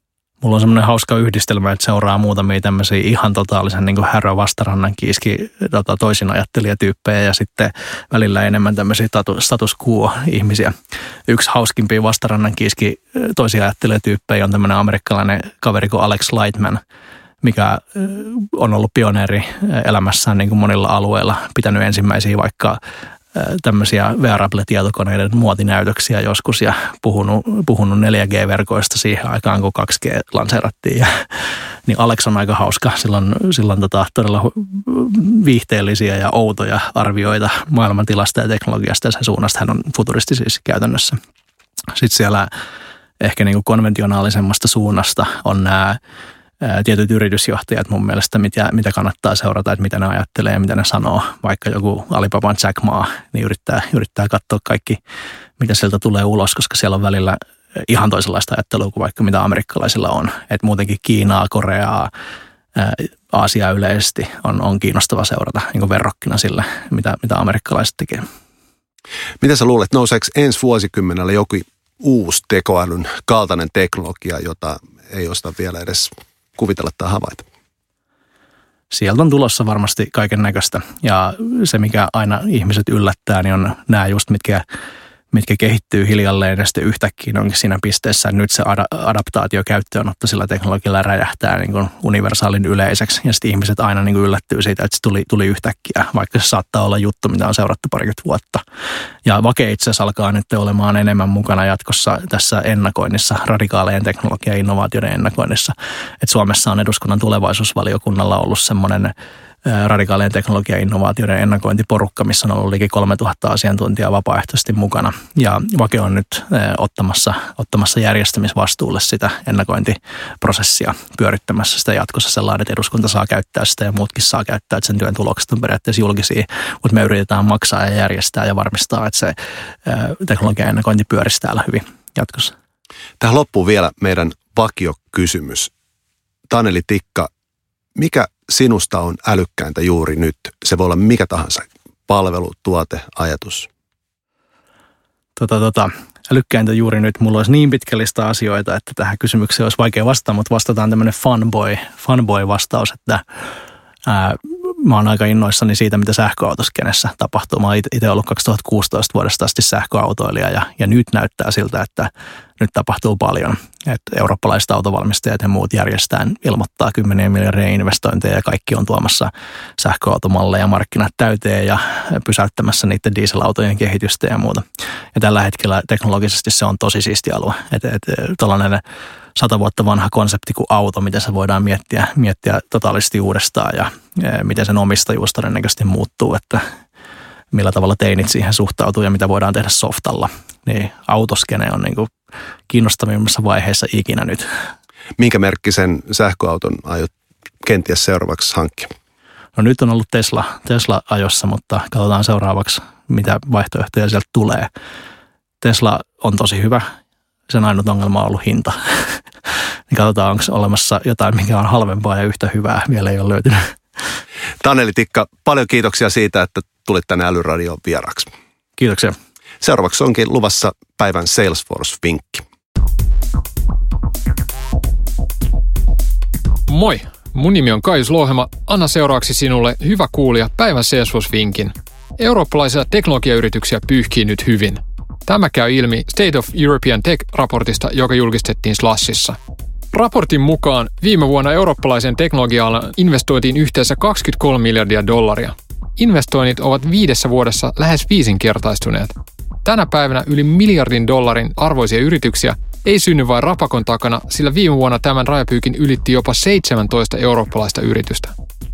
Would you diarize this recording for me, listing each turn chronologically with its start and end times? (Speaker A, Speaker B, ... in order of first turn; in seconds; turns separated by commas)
Speaker A: 0.4-10.7, Speaker A: 11.3-16.8, Speaker A: 17.4-22.8, Speaker A: 23.3-31.2, Speaker A: 31.9-41.2, Speaker A: 41.9-42.5, Speaker A: 43.2-46.0, Speaker A: 46.6-55.0, Speaker A: 55.6-62.1, Speaker A: 62.8-68.2, Speaker B: 69.4-77.4, Speaker A: 78.9-84.6, Speaker A: 85.3-98.6, Speaker A: 99.2-109.1, Speaker A: 109.6-132.5, Speaker B: 133.2-135.7, Speaker B: 136.5-137.3, Speaker B: 137.9-143.7, Speaker A: 145.4-153.2, Speaker A: 154.1-174.6, Speaker A: 175.1-178.8, Speaker A: 179.3-186.6, Speaker A: 187.5-192.1, Speaker A: 192.7-194.5, Speaker B: 195.2-198.9, Speaker A: 199.6-204.7, Speaker A: 205.6-206.8, Speaker A: 207.5-209.2, Speaker A: 209.9-213.7, Speaker B: 214.6-218.3, Speaker A: 218.8-219.1, Speaker B: 219.6-222.4, Speaker C: 226.7-239.4, Speaker C: 239.9-258.3